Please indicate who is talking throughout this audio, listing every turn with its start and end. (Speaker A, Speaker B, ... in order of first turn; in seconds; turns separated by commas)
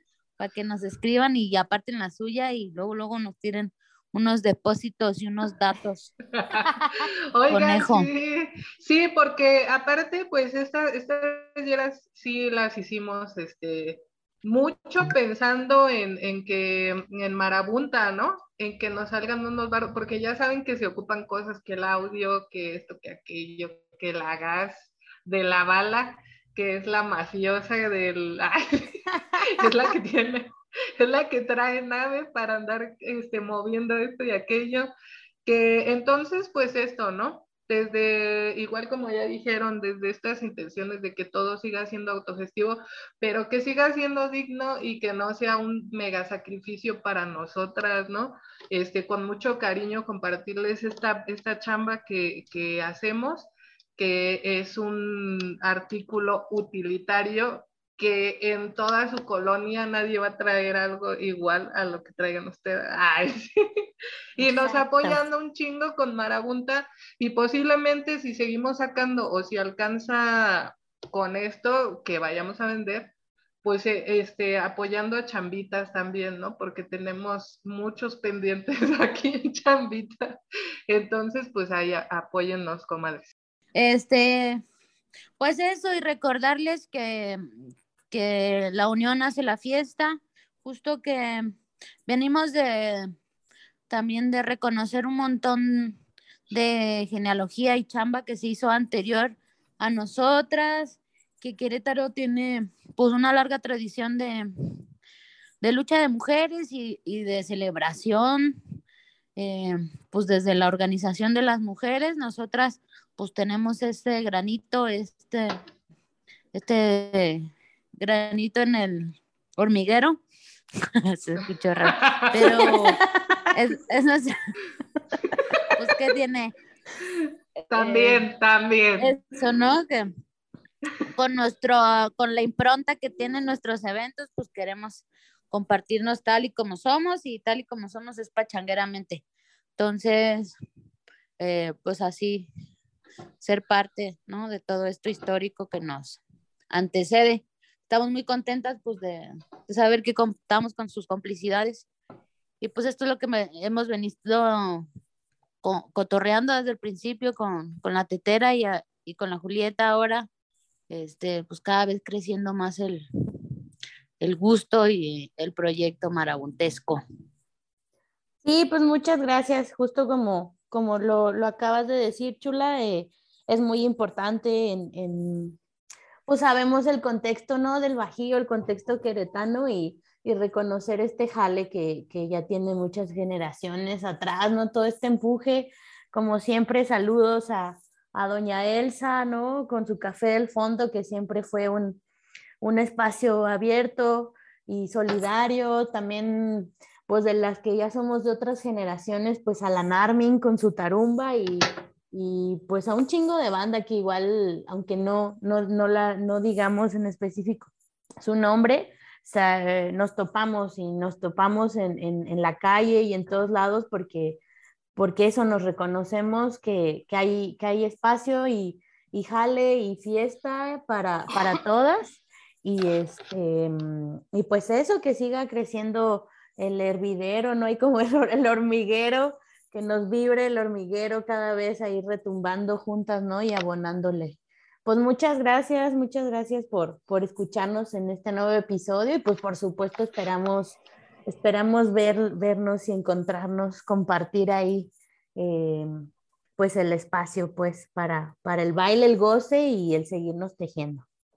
Speaker A: 0.4-6.1, Speaker B: 6.4-34.9, Speaker A: 7.5-8.1, Speaker B: 35.5-63.9, Speaker B: 64.4-73.1, Speaker A: 64.7-65.2, Speaker B: 73.6-80.4, Speaker B: 80.9-83.3, Speaker A: 83.8-84.6, Speaker A: 85.4-87.4, Speaker A: 88.1-93.1, Speaker A: 93.9-96.0, Speaker A: 96.5-104.5, Speaker A: 105.6-108.6, Speaker A: 109.4-115.6, Speaker A: 116.5-120.2, Speaker A: 121.1-123.0, Speaker B: 121.9-122.8, Speaker A: 123.5-124.3, Speaker B: 125.3-125.7, Speaker A: 125.8-126.5, Speaker A: 127.6-128.3, Speaker B: 127.7-129.2, Speaker A: 129.0-130.1, Speaker A: 131.2-139.2, Speaker A: 139.8-140.6, Speaker A: 141.4-142.5, Speaker A: 143.4-146.2, Speaker A: 146.7-151.9, Speaker A: 152.6-154.9, Speaker A: 155.6-160.3, Speaker A: 160.9-163.0, Speaker A: 164.2-167.0, Speaker C: 168.4-175.6, Speaker C: 176.3-192.0, Speaker C: 192.6-214.4, Speaker C: 215.0-245.9, Speaker C: 246.6-251.1